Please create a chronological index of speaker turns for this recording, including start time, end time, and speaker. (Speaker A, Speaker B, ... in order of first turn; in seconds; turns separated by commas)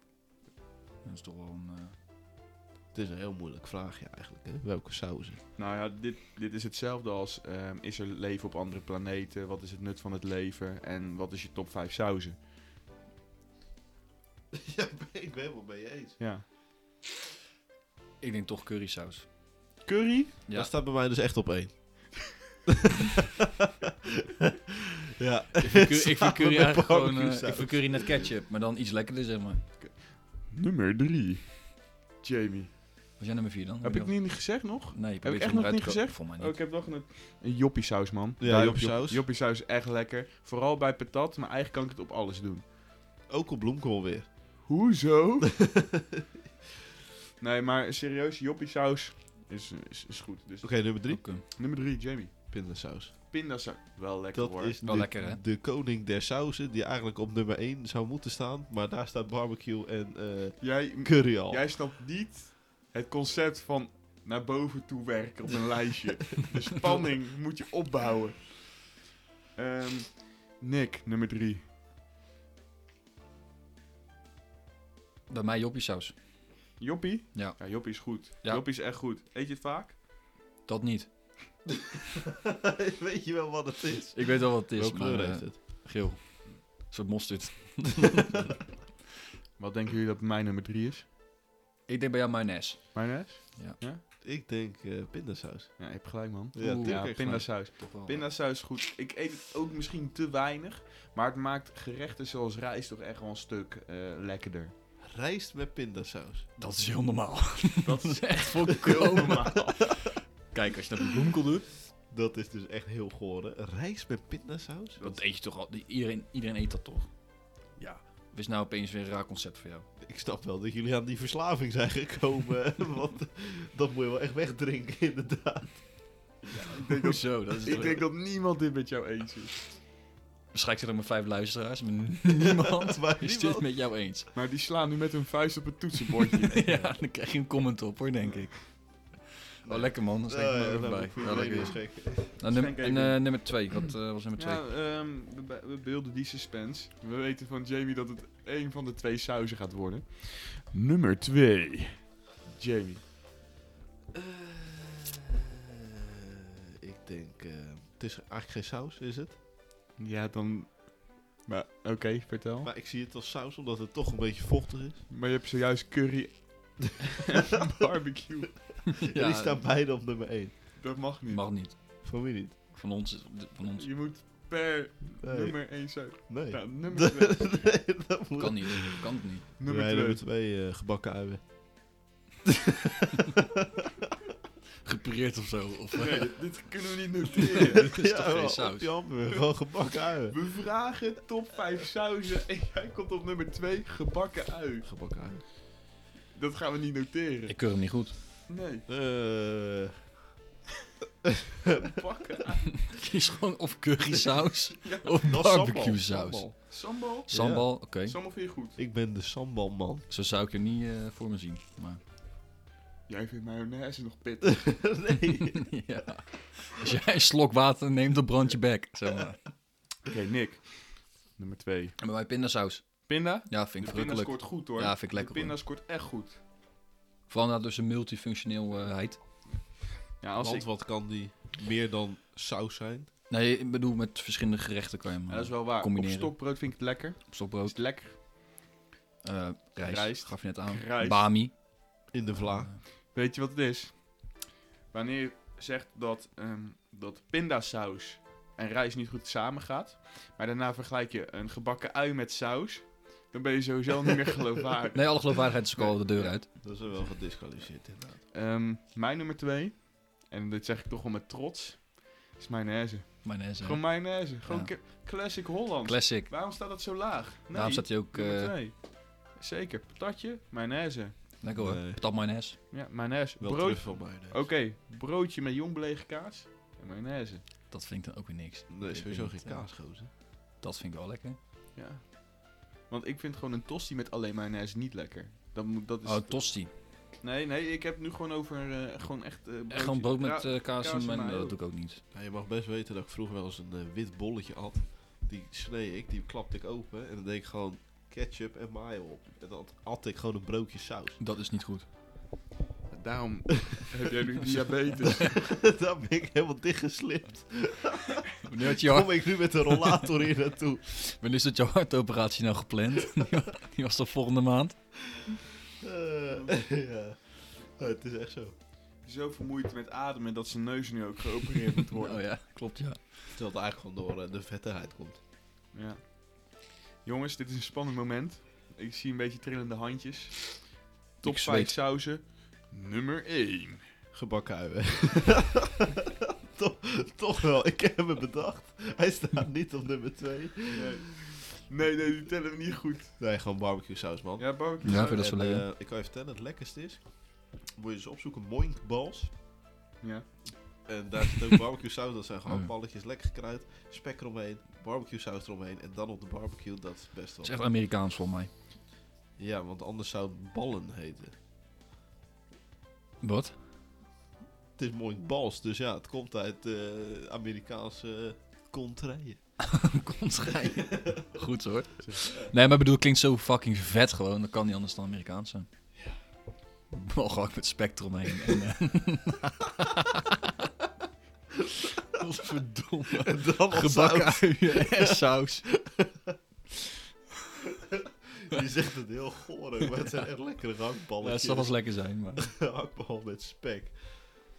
Speaker A: 1.0-1.9, Speaker B: 2.9-5.4, Speaker C: 5.5-12.4, Speaker B: 14.5-16.2, Speaker C: 16.2-16.4, Speaker A: 18.2-19.3, Speaker C: 19.8-20.3, Speaker B: 20.5-23.9, Speaker B: 25.1-28.3, Speaker A: 25.6-29.7, Speaker C: 29.8-32.7, Speaker A: 33.2-36.6, Speaker C: 33.8-42.6, Speaker B: 38.4-39.2, Speaker B: 43.3-44.3, Speaker C: 44.6-45.5, Speaker B: 45.5-46.2, Speaker C: 47.4-52.5, Speaker B: 50.6-51.2, Speaker A: 51.1-51.4, Speaker B: 52.5-53.1, Speaker C: 53.3-54.8, Speaker B: 54.3-61.7, Speaker A: 54.8-55.4, Speaker C: 60.6-68.8, Speaker C: 69.5-71.7, Speaker A: 75.3-76.1, Speaker C: 76.8-80.0, Speaker A: 77.3-78.6, Speaker A: 80.7-81.3, Speaker B: 82.2-85.6, Speaker A: 84.1-88.4, Speaker C: 89.6-91.0, Speaker A: 91.9-93.8, Speaker C: 92.9-94.0, Speaker B: 94.2-95.8, Speaker C: 95.8-104.7, Speaker B: 96.5-97.5, Speaker A: 96.6-98.3, Speaker B: 105.0-106.5, Speaker A: 106.6-109.9, Speaker C: 107.8-109.9, Speaker A: 110.5-111.7, Speaker B: 112.1-115.2, Speaker A: 115.0-117.1, Speaker A: 117.7-119.9, Speaker B: 120.0-126.2, Speaker C: 126.5-129.6, Speaker A: 126.7-128.1, Speaker A: 130.5-134.3, Speaker B: 132.3-133.7, Speaker C: 134.3-136.6, Speaker A: 136.5-144.7, Speaker B: 139.6-142.4, Speaker C: 142.4-143.7, Speaker C: 144.3-153.0, Speaker B: 154.1-155.4, Speaker B: 156.3-159.3, Speaker C: 160.0-162.7, Speaker B: 162.6-165.0, Speaker C: 165.1-168.6, Speaker A: 168.9-169.6, Speaker B: 169.0-170.6, Speaker C: 170.8-171.5, Speaker A: 171.3-172.1, Speaker B: 172.0-172.7, Speaker A: 172.7-174.0, Speaker C: 173.7-177.8, Speaker B: 175.2-181.5, Speaker A: 178.4-179.5, Speaker C: 179.6-180.2, Speaker B: 182.5-183.7, Speaker A: 184.8-186.5, Speaker C: 185.9-187.9, Speaker A: 187.4-189.0, Speaker B: 187.9-190.4, Speaker C: 190.3-194.9, Speaker B: 194.8-195.4, Speaker C: 196.3-197.6, Speaker A: 197.5-198.2, Speaker C: 198.5-198.8, Speaker B: 198.9-200.0, Speaker B: 201.2-201.8, Speaker C: 201.8-202.8, Speaker A: 202.7-206.5, Speaker C: 204.8-205.1, Speaker B: 205.2-206.7, Speaker C: 206.7-208.8, Speaker B: 207.3-207.7, Speaker A: 207.3-208.2, Speaker B: 208.8-210.1, Speaker A: 210.1-212.0, Speaker C: 213.1-214.8, Speaker B: 214.4-215.7, Speaker A: 215.4-219.5, Speaker C: 220.0-222.0, Speaker A: 222.0-225.6, Speaker C: 223.1-226.4, Speaker A: 227.3-229.5, Speaker C: 230.2-230.7, Speaker B: 230.4-233.1, Speaker A: 233.3-237.9, Speaker C: 235.3-238.2, Speaker A: 239.2-242.8, Speaker C: 239.8-241.3, Speaker B: 242.1-242.7, Speaker C: 242.9-257.1, Speaker A: 254.9-256.5, Speaker B: 256.6-258.2, Speaker C: 258.3-271.3, Speaker A: 263.2-264.7, Speaker A: 265.8-266.4, Speaker A: 267.5-268.5, Speaker A: 271.4-272.6, Speaker B: 271.5-272.0, Speaker C: 272.7-277.4, Speaker B: 273.4-274.5, Speaker A: 277.7-281.4, Speaker B: 278.7-280.1, Speaker C: 281.7-291.6, Speaker A: 286.0-286.7, Speaker A: 289.7-292.0, Speaker B: 292.1-301.2, Speaker A: 301.2-301.9, Speaker C: 302.9-305.5, Speaker B: 305.2-310.8, Speaker A: 308.4-310.1, Speaker A: 310.9-314.8, Speaker B: 315.8-318.5, Speaker C: 319.0-322.2, Speaker A: 322.0-323.1, Speaker B: 323.3-325.2, Speaker C: 325.7-333.9, Speaker A: 331.2-331.8, Speaker B: 334.1-340.9, Speaker C: 340.7-343.2, Speaker B: 343.2-349.3, Speaker C: 344.4-345.2, Speaker A: 344.8-345.6, Speaker C: 350.0-350.3, Speaker B: 350.8-357.6, Speaker A: 357.4-358.5, Speaker B: 359.4-361.3, Speaker A: 363.2-363.5, Speaker B: 364.8-369.4, Speaker A: 369.6-375.7, Speaker A: 376.9-380.4, Speaker A: 382.1-385.7, Speaker B: 383.1-386.4, Speaker B: 387.6-394.3, Speaker A: 391.2-392.5